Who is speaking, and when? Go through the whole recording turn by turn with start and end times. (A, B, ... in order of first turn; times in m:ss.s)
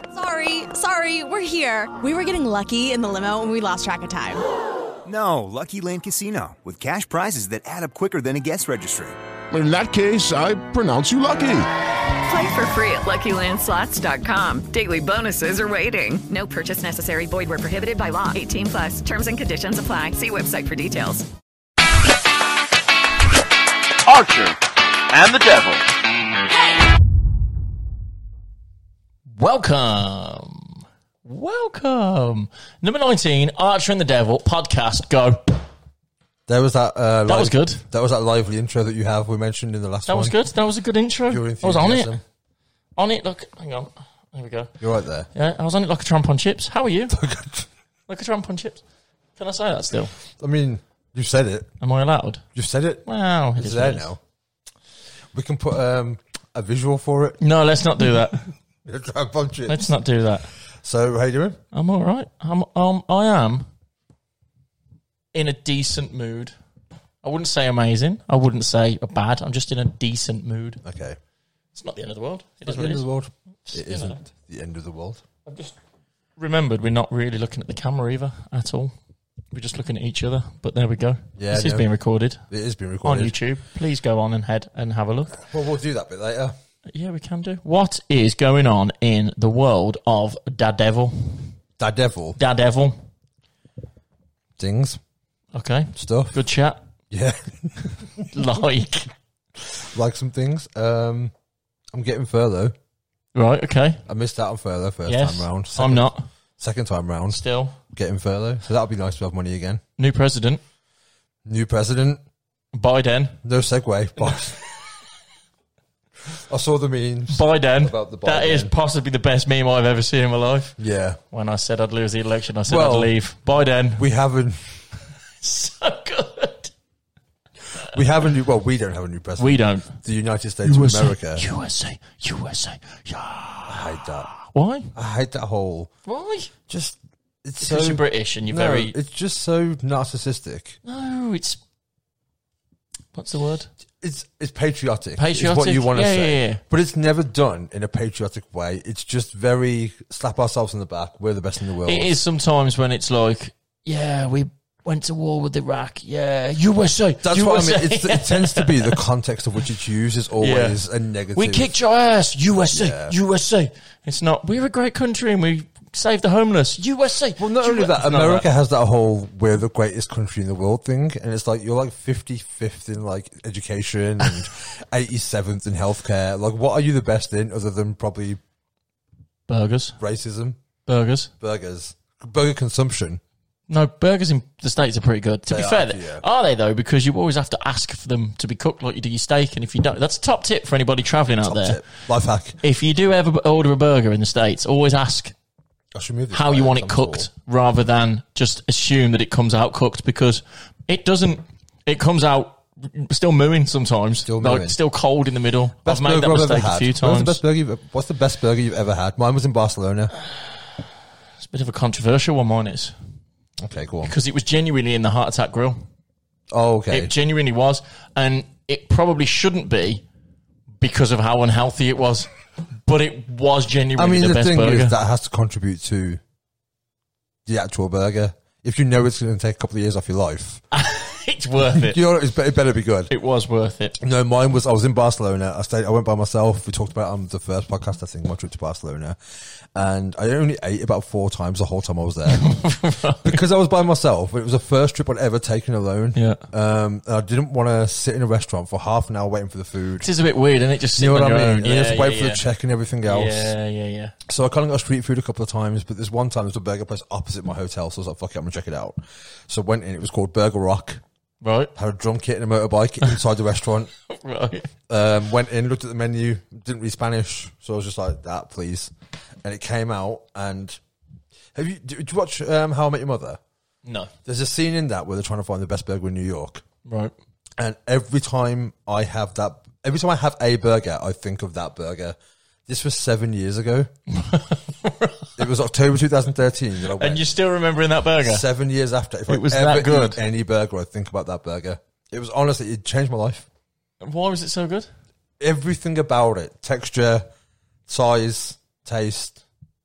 0:00.1-0:04.4 A
0:05.0-0:09.1 B
0:09.5-0:11.7 C
0:12.2-0:21.3 D
0:24.1-0:24.6 E
0:25.1-0:25.8 E
0:29.4-0:35.6 F
0:36.5-0:40.4 E
0:37.3-0:37.8 F
0:40.1-0:42.1 F
0:41.3-0:42.2 E
0:43.0-0:44.7 F
0:44.8-0:45.3 E
0:45.3-0:47.2 F
0:47.1-0:47.7 E
0:48.1-0:48.8 F
0:49.4-0:50.1 F
0:50.3-0:51.7 E
0:51.8-0:52.4 F
0:52.6-0:53.0 E
0:53.0-0:54.1 F
0:53.6-0:54.2 E
0:55.3-0:57.4 E
0:57.4-0:58.4 F
0:58.8-0:59.9 E
0:59.7-1:00.5 F
1:00.8-1:01.6 E
1:01.7-1:03.7 F
1:05.3-1:06.5 F
1:07.2-1:10.8 F
1:10.8-1:11.2 E
1:11.7-1:13.0 F
1:12.6-1:15.2 E
1:13.7-1:14.2 F
1:15.4-1:15.8 F
1:16.4-1:18.9 F
1:19.5-1:22.4 F
1:21.4-1:21.8 E
1:22.5-1:23.4 E
1:23.0-1:25.4 F
1:25.3-1:26.5 E
1:26.9-1:31.5 F
1:31.8-1:32.4 E
1:32.4-1:33.0 F
1:34.6-1:35.0 E
1:35.5-1:36.8 F
1:35.9-1:36.3 E
1:37.1-1:38.3 E
1:38.2-1:39.1 F
1:39.7-1:41.3 E
1:41.9-1:42.7 E
1:43.3-1:44.0 F
1:44.0-1:49.8 E
1:45.0-1:46.3 F
1:47.3-1:47.8 F
1:50.0-1:50.6 F
1:51.4-1:52.2 E
1:52.7-1:53.4 F
1:53.4-1:54.6 E
1:54.2-1:54.4 F
1:56.4-1:58.7 E
1:57.3-2:00.8 F
2:00.8-2:01.2 E
2:01.3-2:04.1 F
2:02.7-2:03.1 E
2:04.0-2:04.8 E
2:05.4-2:06.7 F
2:07.9-2:11.4 E
2:09.4-2:10.0 F
2:10.6-2:14.9 F
2:13.7-2:14.3 E
2:14.9-2:15.9 E
2:16.0-2:16.5 F
2:16.7-2:20.8 E
2:17.6-2:18.9 F
2:20.8-2:21.6 F
2:23.1-2:23.7 F
2:24.0-2:32.1 E
2:25.2-2:26.6 F
2:31.8-2:39.0 F
2:37.2-2:41.7 E
2:40.4-2:40.8 F
2:41.3-2:48.5 F
2:42.7-2:43.1 E
2:47.4-2:58.4 E
2:59.5-3:00.0 F
3:00.0-3:00.6 E
3:00.9-3:01.3 F
3:01.4-3:03.2 E
3:03.7-3:11.8 F
3:05.5-3:06.2 E
3:11.4-3:12.6 E
3:12.6-3:15.3 F
3:15.9-3:17.3 E
3:16.3-3:27.4 F
3:24.2-3:24.8 E
3:25.8-3:30.1 E
3:30.2-3:30.6 F
3:31.4-3:32.9 F
3:33.6-3:34.1 E
3:34.0-3:35.8 F
3:36.5-3:37.1 E
3:36.9-3:40.0 F
3:40.8-3:45.0 F
3:44.0-3:46.2 E
3:47.4-3:50.6 E
3:50.7-3:52.0 F
3:51.6-3:53.1 E
3:53.1-3:54.0 F
3:54.0-3:59.2 E
3:59.7-4:02.5 E
4:02.3-4:03.4 F
4:03.2-4:10.1 E
4:06.1-4:06.4 F
4:10.0-4:12.4 F
4:11.0-4:13.5 E
4:13.0-4:14.1 F
4:14.3-4:21.0 E
4:21.4-4:21.7 F
4:21.7-4:23.9 E
4:24.1-4:24.7 F
4:24.9-4:28.9 E
4:29.4-4:30.8 E
4:31.5-4:33.4 E
4:33.8-4:34.1 F
4:34.2-4:36.6 E
4:36.8-4:37.1 F
4:37.6-4:43.9 E
4:44.1-4:45.3 F
4:45.4-4:47.2 E
4:46.9-4:48.4 F
4:48.2-4:53.4 E
4:49.3-4:50.2 F
4:54.0-4:54.9 F
4:55.4-4:57.3 E
4:57.9-4:59.4 E